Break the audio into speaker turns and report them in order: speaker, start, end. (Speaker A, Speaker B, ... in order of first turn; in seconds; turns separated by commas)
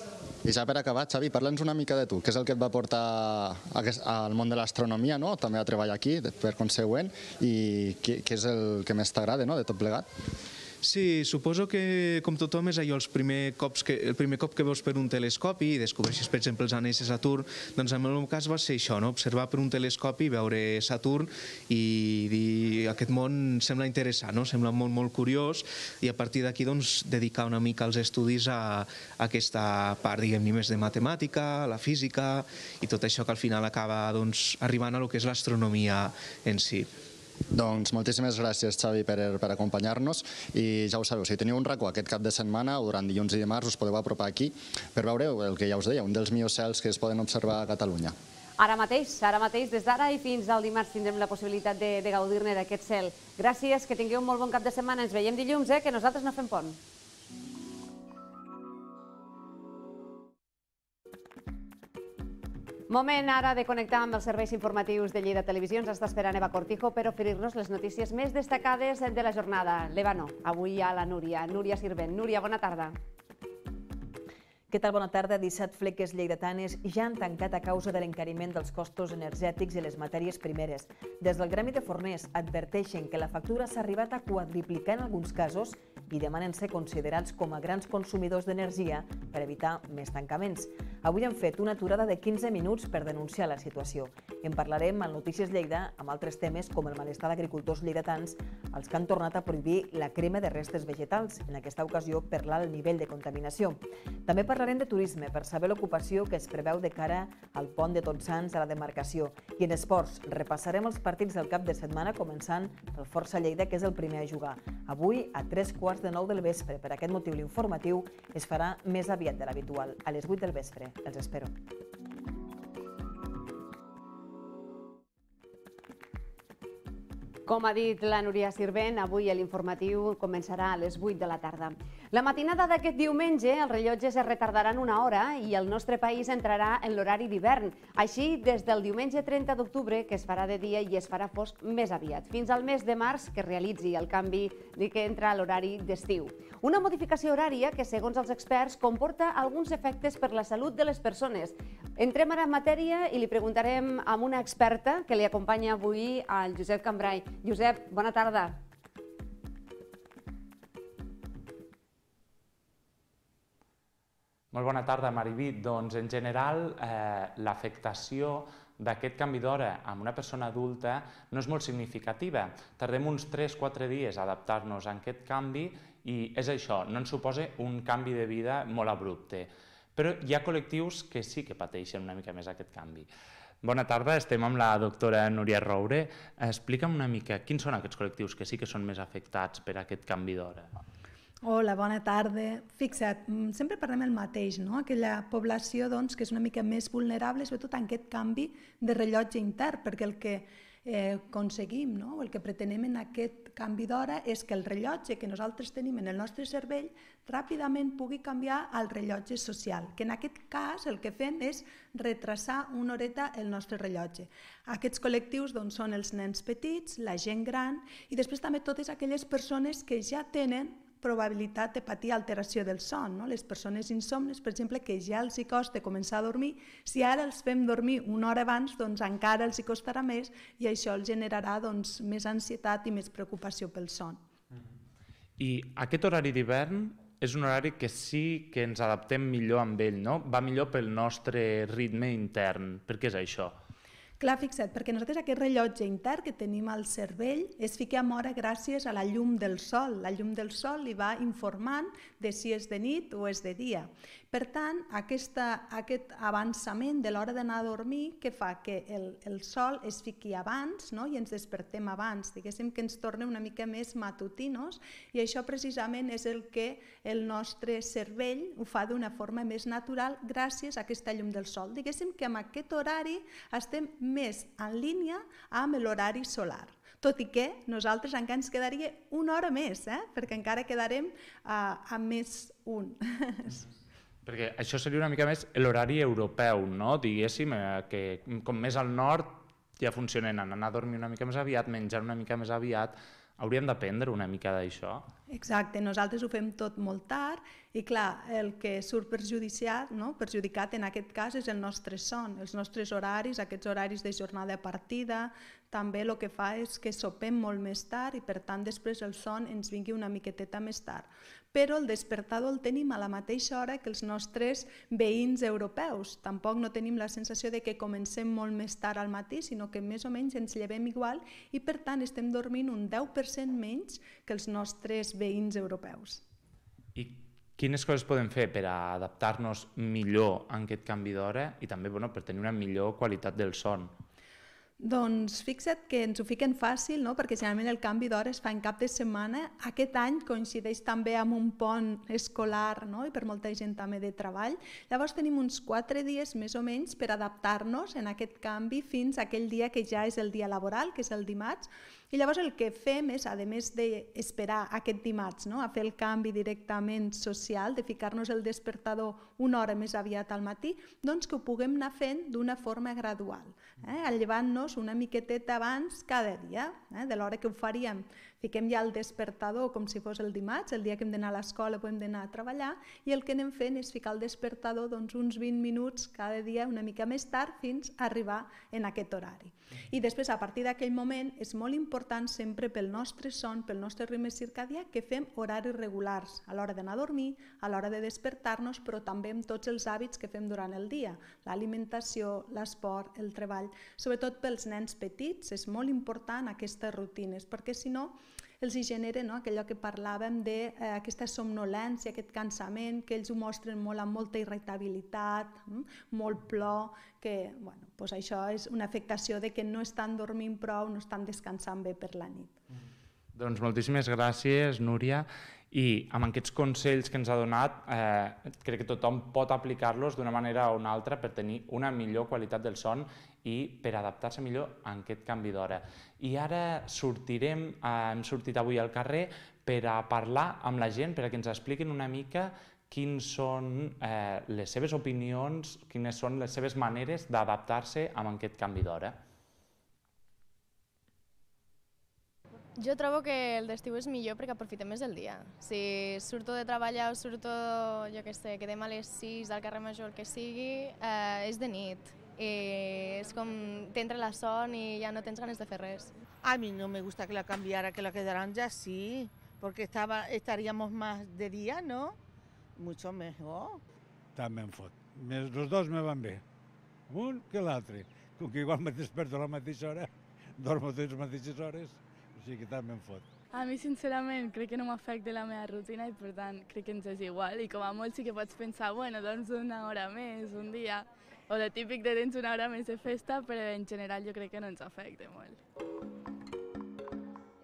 Speaker A: 0.4-10.1, Speaker B: 10.8-36.9, Speaker A: 37.5-48.1, Speaker C: 48.6-56.8, Speaker C: 62.9-73.0, Speaker D: 74.7-121.5, Speaker C: 127.5-158.6, Speaker E: 164.5-183.1, Speaker E: 183.6-190.7, Speaker F: 191.4-234.2, Speaker E: 235.4-243.5, Speaker F: 244.2-283.6, Speaker E: 284.2-295.1, Speaker F: 295.3-326.2, Speaker E: 326.9-333.9, Speaker F: 334.8-412.5, Speaker E: 413.3-439.2, Speaker G: 442.8-456.1, Speaker H: 456.4-462.2, Speaker H: 462.8-463.8, Speaker I: 464.4-466.4, Speaker I: 467.1-473.3, Speaker J: 473.5-485.6